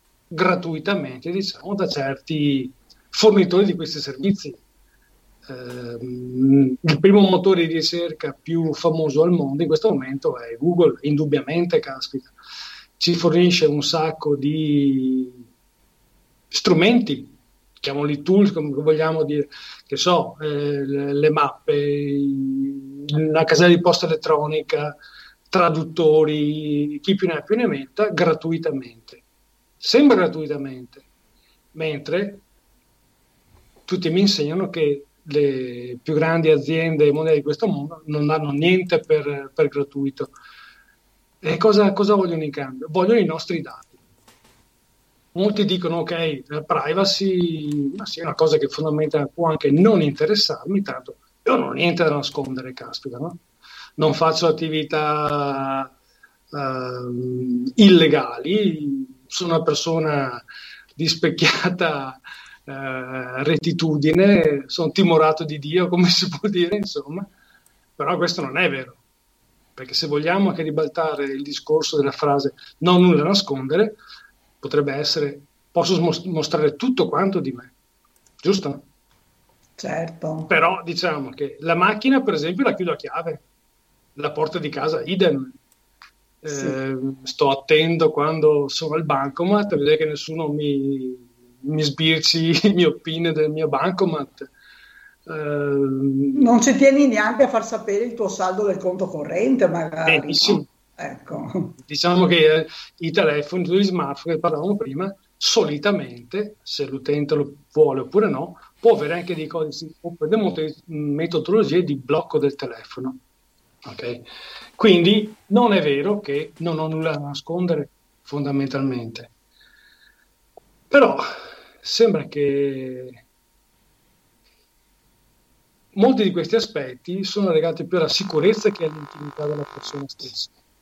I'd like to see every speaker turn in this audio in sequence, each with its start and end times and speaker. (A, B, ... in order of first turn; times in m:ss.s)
0:00.3-0:04.6 A
0:05.5-0:12.3 A
0:13.0-0:15.4 A
0:16.5-0:25.0 A
0:25.5-0:29.2 A
0:29.8-0:31.0 A
0:31.7-0:32.4 A
0:33.9-0:40.3 A
0:41.4-0:44.0 A
0:45.3-0:53.4 A
0:54.0-0:55.9 A
0:56.5-1:00.4 A
1:01.0-1:07.3 A
1:08.0-1:09.0 A
1:09.8-1:14.0 A
1:14.6-1:17.7 A
1:18.4-1:18.8 A
1:19.8-1:20.5 B
1:20.5-1:23.4 A
1:24.2-1:25.6 A
1:26.4-1:34.5 A
1:26.5-1:26.8 B
1:35.3-1:36.4 A
1:36.4-1:41.7 B
1:40.0-1:40.6 A
1:41.8-1:53.2 A
1:53.8-1:54.2 A
1:54.8-1:59.3 A
2:00.9-2:01.2 A
2:01.8-2:03.2 A
2:05.9-2:10.5 A